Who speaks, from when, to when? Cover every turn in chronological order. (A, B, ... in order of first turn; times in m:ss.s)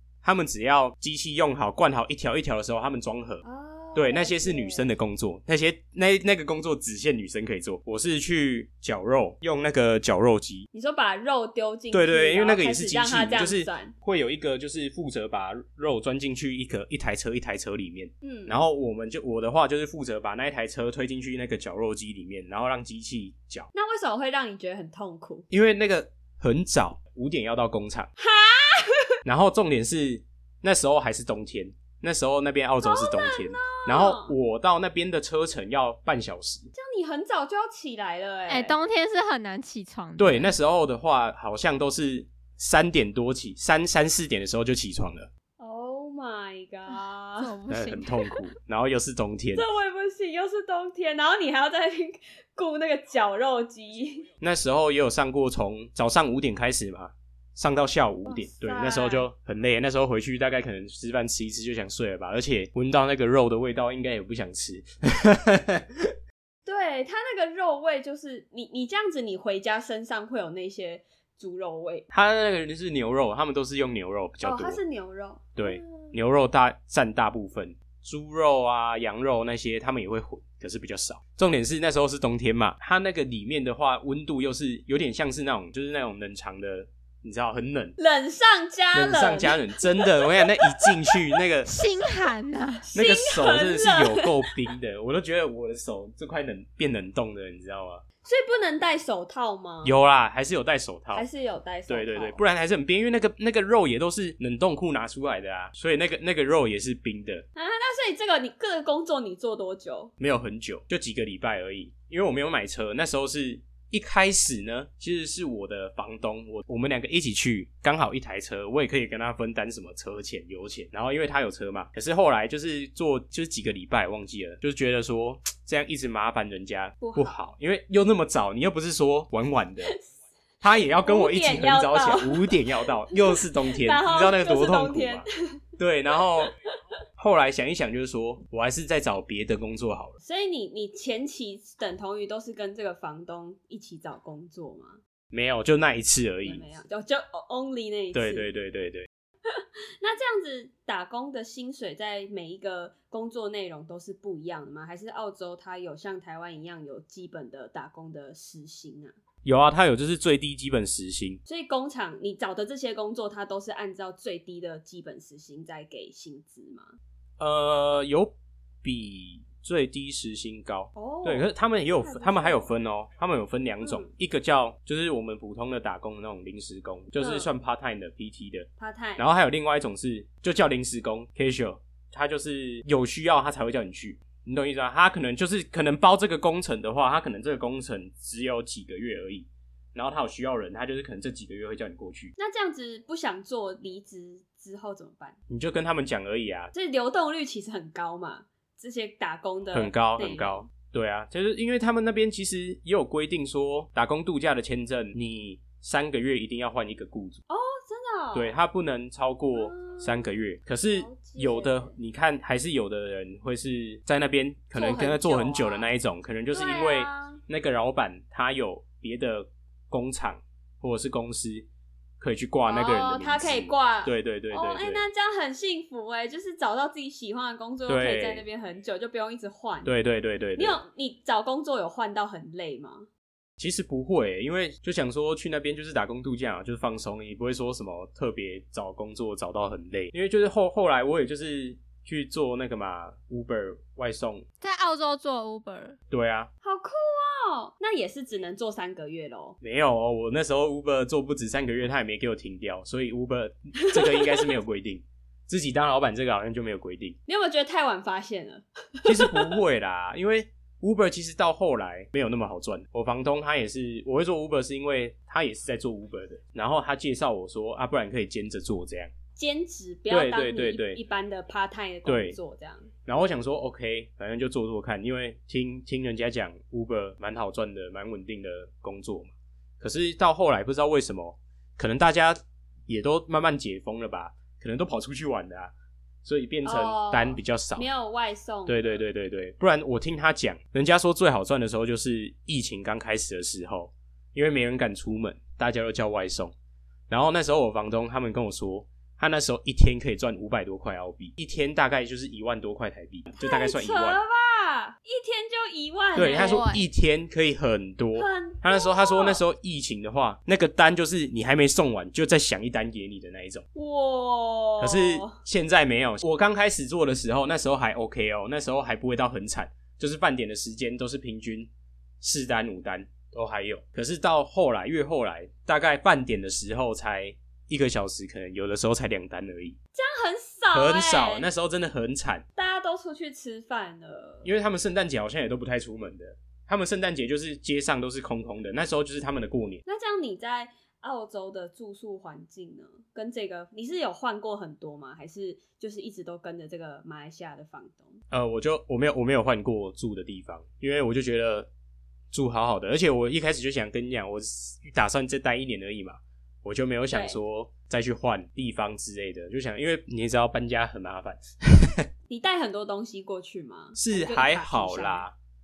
0:00.2-0:03.4 A
0:03.4-0:04.9 B
0:03.9-0:10.7 A
0:10.7-0:13.9 B
0:11.9-0:23.7 A
0:18.2-0:18.6 B
0:23.7-0:25.5 B
0:25.5-0:28.1 A
0:28.2-0:29.1 B
0:29.2-0:36.7 A
0:32.8-0:34.3 B
0:36.7-0:38.7 B
0:38.5-0:40.5 C
0:40.2-0:45.3 A
0:45.6-0:47.5 B
0:46.9-0:48.3 C
0:47.7-0:49.6 A
0:49.5-0:54.3 B
0:54.4-1:06.2 A
0:58.2-0:59.3 B
1:06.6-1:12.1 B
1:12.1-1:14.8 A
1:14.4-1:16.1 B
1:15.6-1:27.9 A
1:28.0-1:31.2 B
1:28.9-1:31.7 A
1:31.7-1:32.9 C
1:32.9-1:34.6 B
1:32.9-1:38.0 A
1:38.2-1:40.0 B
1:39.8-1:41.2 A
1:41.1-1:42.4 B
1:41.9-1:47.4 A
1:47.6-1:50.1 B
1:50.2-2:09.9 A
2:07.0-2:07.4 B
2:10.6-2:15.2 A
2:11.0-2:15.3 B
2:15.8-2:16.5 A
2:16.1-2:16.5 B
2:17.2-2:20.2 A
2:20.2-2:25.0 B
2:25.3-2:26.6 A
2:26.4-2:28.5 B
2:28.1-2:29.1 A
2:29.5-2:39.1 B
2:39.4-2:41.4 A
2:41.4-2:47.0 B
2:47.4-3:12.3 A
2:51.0-2:52.7 B
2:53.8-2:54.1 B
2:57.2-2:57.5 B
2:58.8-2:59.2 B
3:12.4-3:15.4 B
3:15.5-3:16.7 A
3:16.7-3:20.7 B
3:19.7-3:27.4 A
3:27.5-3:28.5 B
3:28.3-3:41.7 A
3:29.5-3:30.4 B
3:30.9-3:32.0 B
3:34.7-3:35.9 B
3:36.5-3:37.4 B
3:42.2-3:45.0 A
3:42.6-3:49.9 B
3:47.9-3:48.4 A
3:49.8-3:50.8 A
3:50.6-3:53.1 B
3:53.6-4:04.4 A
4:04.6-4:06.0 C
4:06.1-4:06.5 A
4:06.6-4:09.6 B
4:09.6-4:17.2 A
4:13.8-4:14.6 B
4:17.3-4:19.6 B
4:19.0-4:29.1 A
4:29.4-4:32.9 B
4:30.1-4:31.0 A
4:32.0-4:32.4 A
4:33.0-4:45.7 A
4:46.2-4:47.9 A
4:46.6-4:49.0 B
4:48.7-4:56.5 A
4:57.1-5:04.2 A
5:03.4-5:06.6 B
5:06.2-5:06.9 C
5:06.2-5:13.6 A
5:08.2-5:09.4 B
5:13.7-5:15.4 B
5:14.8-5:21.7 A
5:22.2-5:29.8 A
5:29.9-5:31.5 B
5:30.7-5:32.4 A
5:32.6-5:34.5 B
5:34.4-5:39.8 A
5:39.8-5:48.2 B
5:48.3-5:51.7 A
5:52.3-6:02.0 A
5:57.1-5:57.4 B
6:02.3-6:05.3 B
6:04.0-6:05.3 A